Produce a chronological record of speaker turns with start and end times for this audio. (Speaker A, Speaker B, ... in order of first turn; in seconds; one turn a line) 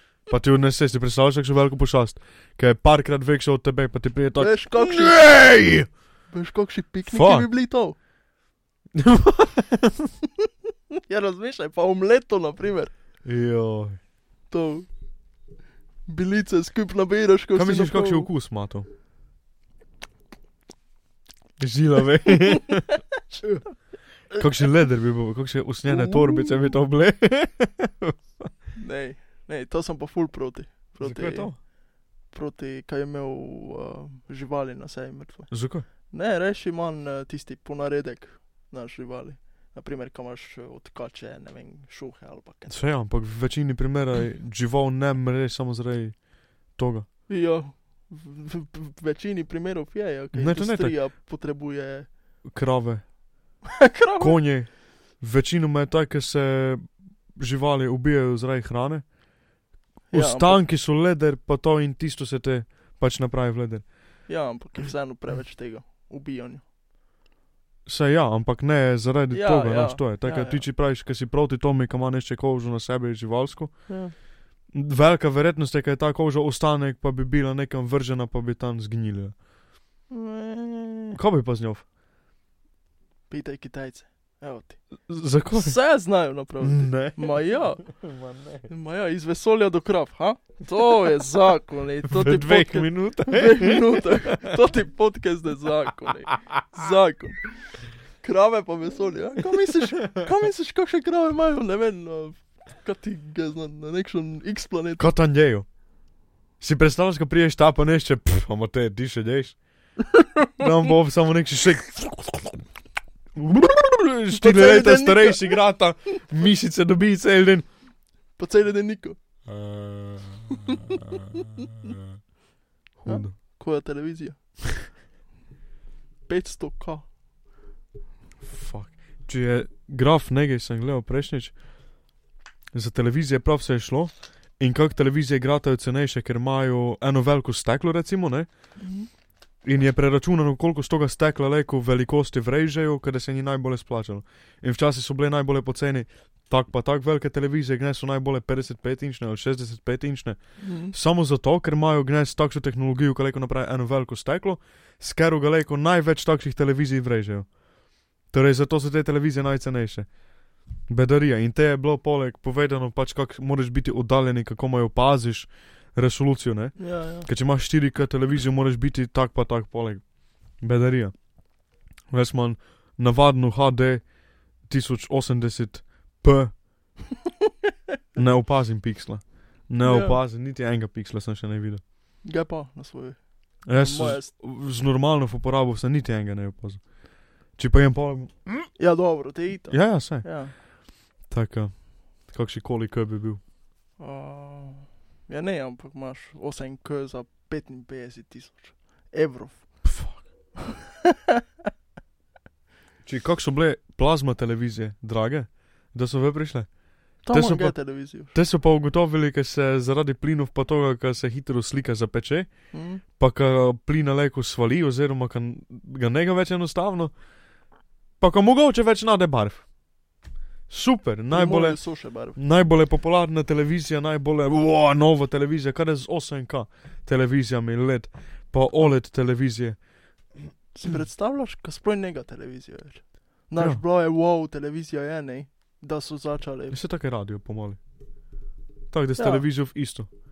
Speaker A: 0.3-5.9
Speaker B: 4.4-5.2
Speaker B: 6.3-8.0
Speaker A: 7.1-7.5
Speaker A: 8.9-10.1
Speaker B: 11.1-12.9
Speaker A: 13.2-14.0
Speaker B: 14.5-14.9
Speaker B: 16.1-18.3
Speaker A: 17.6-18.9
Speaker A: 21.6-23.0
Speaker A: 24.3-28.5
Speaker B: 25.9-26.5
Speaker B: 28.8-31.7
Speaker A: 31.0-31.6
Speaker B: 32.3-42.8
Speaker A: 35.5-35.9
Speaker A: 42.7-47.1
Speaker B: 47.3-52.1
Speaker A: 50.3-51.0
Speaker A: 52.5-53.1
Speaker B: 53.8-54.4
Speaker A: 54.2-56.8
Speaker A: 57.4-59.1
Speaker B: 60.1-60.6
Speaker A: 60.1-63.9
Speaker B: 64.3-66.6
Speaker A: 67.9-74.0
Speaker B: 69.3-70.6
Speaker B: 73.9-74.1
Speaker A: 74.7-79.4
Speaker B: 80.1-81.2
Speaker A: 81.1-81.8
Speaker B: 83.3-84.8
Speaker A: 85.1-85.8
Speaker B: 85.5-87.9
Speaker A: 86.6-88.7
Speaker B: 88.7-97.7
Speaker A: 92.0-94.5
Speaker B: 98.2-105.1
Speaker A: 105.0-105.7
Speaker A: 106.6-109.6
Speaker B: 110.2-110.7
Speaker A: 110.6-112.6
Speaker A: 113.3-117.7
Speaker B: 114.3-115.6
Speaker B: 118.4-119.2
Speaker A: 119.5-122.2
Speaker B: 120.7-121.1
Speaker A: 123.0-123.3
Speaker B: 123.1-124.4
Speaker B: 126.3-127.1
Speaker A: 128.4-131.6
Speaker A: 132.7-138.5
Speaker B: 138.8-139.1
Speaker A: 139.6-157.5
Speaker B: 150.6-150.9
Speaker A: 158.3-160.1
Speaker A: 160.9-171.1
Speaker B: 166.8-167.3
Speaker A: 172.1-174.1
Speaker A: 174.6-176.6
Speaker A: 178.2-181.8
Speaker B: 179.8-180.2
Speaker B: 182.2-184.3
Speaker A: 183.7-186.8
Speaker A: 187.6-188.7
Speaker B: 188.8-190.5
Speaker A: 189.7-190.3
Speaker A: 191.3-193.4
Speaker B: 194.0-199.8
Speaker A: 199.8-200.2
Speaker B: 200.6-201.2
Speaker A: 203.1-206.7
Speaker B: 207.2-208.3
Speaker A: 207.3-207.8
Speaker A: 208.3-212.5
Speaker B: 212.7-213.0
Speaker A: 213.2-217.1
Speaker A: 218.2-219.7
Speaker A: 220.7-229.8
Speaker B: 221.3-222.4
Speaker B: 230.7-236.8
Speaker A: 233.6-233.8
Speaker A: 236.7-237.8
Speaker A: 238.9-240.1
Speaker B: 239.2-239.5